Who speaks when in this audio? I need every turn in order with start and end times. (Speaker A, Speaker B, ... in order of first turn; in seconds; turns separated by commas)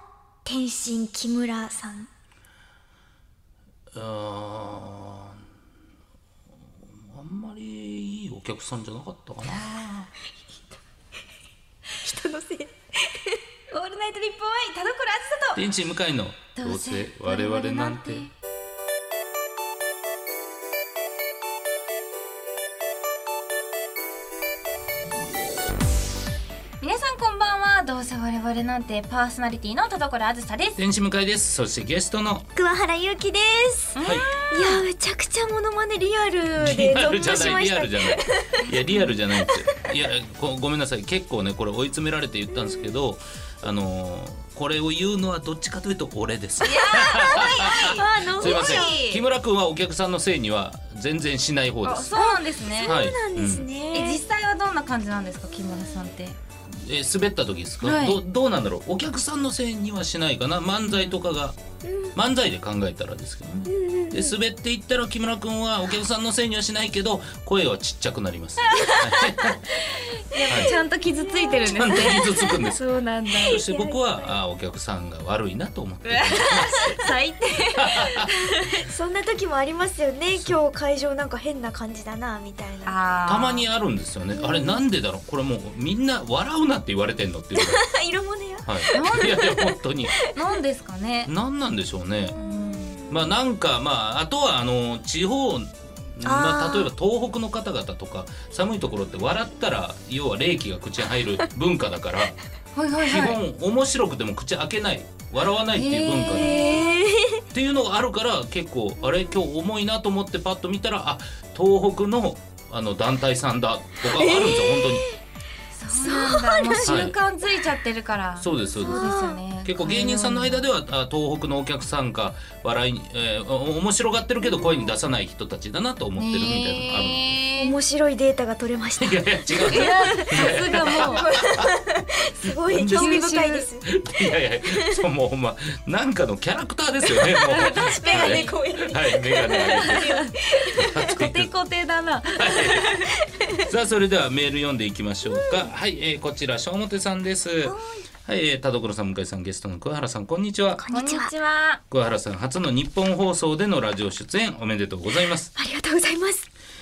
Speaker A: 0.5-2.1, Speaker B: 3.9-5.4, Speaker B: 6.9-9.7, Speaker C: 9.5-10.1, Speaker A: 12.0-13.4, Speaker C: 13.7-15.6, Speaker B: 15.6-18.3, Speaker C: 16.6-18.3, Speaker C: 26.8-30.8, Speaker B: 30.8-32.5, Speaker A: 32.5-34.0, Speaker C: 34.0-34.8, Speaker B: 34.0-34.3, Speaker A: 34.5-38.7, Speaker B: 36.6-52.3, Speaker C: 38.9-39.1, Speaker A: 39.4-39.9, Speaker A: 42.5-42.9, Speaker C: 46.6-49.2, Speaker A: 46.9-49.0, Speaker C: 51.8-53.0, Speaker A: 52.1-54.2, Speaker B: 52.8-53.7, Speaker C: 53.9-56.4, Speaker A: 55.7-56.1, Speaker B: 56.7-61.6, Speaker C: 57.8-58.2, Speaker A: 61.8-62.1, Speaker B: 62.1-69.8, Speaker A: 63.7-64.4, Speaker C: 68.6-73.6, Speaker A: 70.4-72.7, Speaker B: 70.5-70.8, Speaker B: 71.7-72.8, Speaker A: 73.3-74.4, Speaker B: 73.5-77.0, Speaker C: 76.0-78.8, Speaker B: 77.8-78.3, Speaker A: 78.8-83.0, Speaker C: 82.9-83.7, Speaker B: 83.3-87.8, Speaker A: 84.3-84.8, Speaker A: 87.5-90.3, Speaker B: 88.7-90.1, Speaker C: 88.9-89.5, Speaker C: 90.2-91.3, Speaker B: 91.3-92.4, Speaker A: 92.3-93.3, Speaker C: 92.4-93.0, Speaker B: 93.1-102.4, Speaker A: 96.2-96.9, Speaker C: 102.8-103.4, Speaker B: 103.0-106.8, Speaker C: 105.7-106.9, Speaker A: 106.3-107.5, Speaker B: 107.5-115.0, Speaker A: 109.0-109.4, Speaker A: 114.0-115.2, Speaker C: 115.8-120.6, Speaker A: 115.9-117.1, Speaker B: 116.8-117.2, Speaker B: 118.4-127.2, Speaker A: 118.8-119.4, Speaker A: 124.4-124.9, Speaker C: 126.2-127.8, Speaker A: 127.6-133.9, Speaker B: 129.0-131.7, Speaker C: 129.7-131.3, Speaker B: 132.7-133.2, Speaker C: 133.0-133.7, Speaker B: 133.8-141.5, Speaker A: 134.7-135.0, Speaker C: 137.4-138.6, Speaker A: 137.5-141.2, Speaker C: 139.5-143.2, Speaker B: 142.3-142.9, Speaker A: 143.1-143.7, Speaker B: 143.7-150.8, Speaker A: 145.2-145.7, Speaker A: 147.7-148.1, Speaker A: 150.8-151.3, Speaker C: 150.9-151.8, Speaker B: 151.9-155.5, Speaker A: 155.6-156.5